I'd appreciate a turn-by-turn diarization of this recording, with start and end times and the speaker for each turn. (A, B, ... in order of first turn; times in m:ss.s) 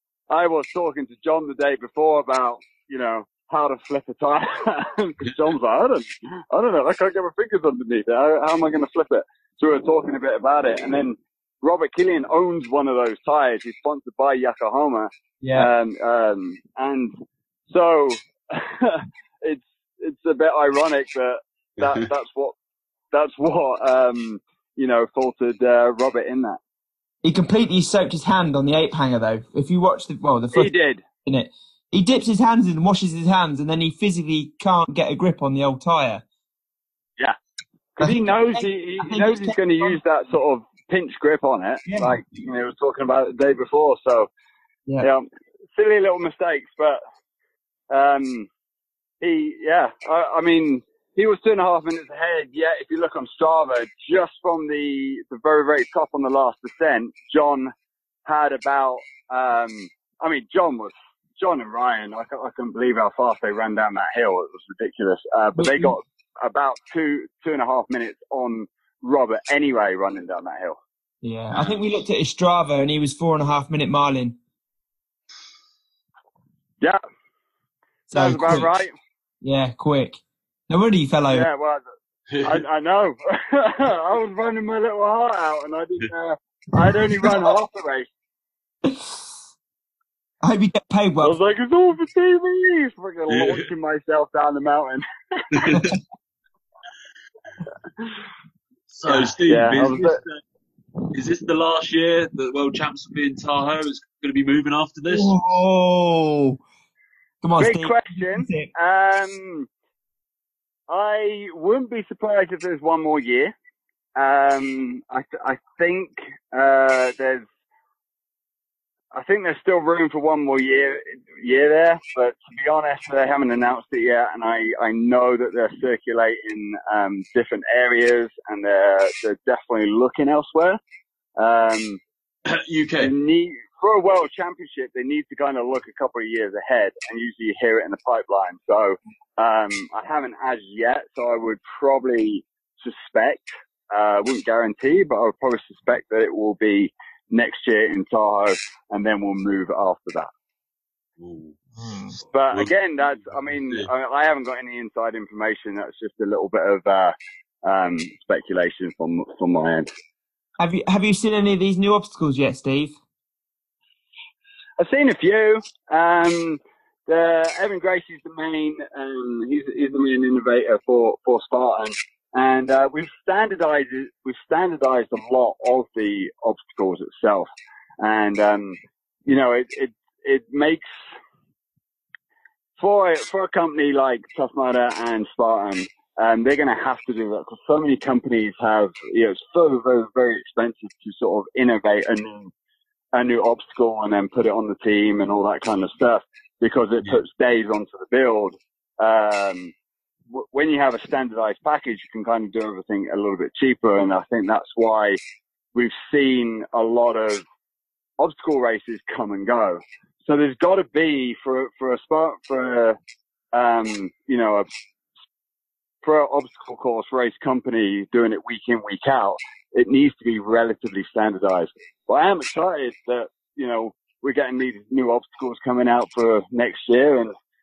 0:00.3-0:17.1 A
0:15.4-0:15.7 B
0:17.7-0:22.5 A
0:23.1-0:26.6 A
0:27.2-0:30.7 B
0:30.5-0:31.0 A
0:31.2-0:36.2 B
0:38.0-0:44.3 A
0:38.0-0:40.0 B
0:41.9-0:42.2 B
0:45.0-0:47.0 A
0:47.9-0:48.5 A
0:49.2-0:57.7 A
0:58.2-1:10.8 A
1:05.6-1:05.9 B
1:11.2-1:14.4 B
1:11.5-1:11.8 C
1:18.1-1:18.7 B
1:18.1-1:18.9 A
1:19.4-1:21.5 B
1:21.3-1:28.1 A
1:22.3-1:22.6 C
1:28.8-1:29.2 B
1:30.4-1:31.4 B
1:31.2-1:35.8 A
1:33.3-1:33.6 C
1:35.5-1:35.8 C
1:35.7-1:36.0 B
1:38.9-1:40.4 C
1:39.0-1:40.2 A
1:41.1-1:45.4 C
1:45.1-1:46.6 B
1:47.4-1:48.7 B
1:47.6-1:49.7 A
1:50.9-1:53.5 A
1:54.2-1:57.4 A
1:59.1-2:10.8 A
2:11.4-2:12.0 A
2:12.4-2:13.1 C
2:13.0-2:30.3 A
2:31.2-2:31.6 C
2:31.8-2:32.1 B
2:32.1-2:32.7 C
2:32.3-2:39.9 A
2:33.4-2:33.9 C
2:40.6-2:43.0 B
2:44.8-2:57.5 A
2:58.0-3:00.9 A
3:02.8-3:12.5 A
3:13.1-3:19.7 A
3:20.3-3:25.2 A
3:25.7-3:27.4 A
3:28.2-3:33.0 A
3:33.5-3:34.7 A
3:36.0-3:47.3 A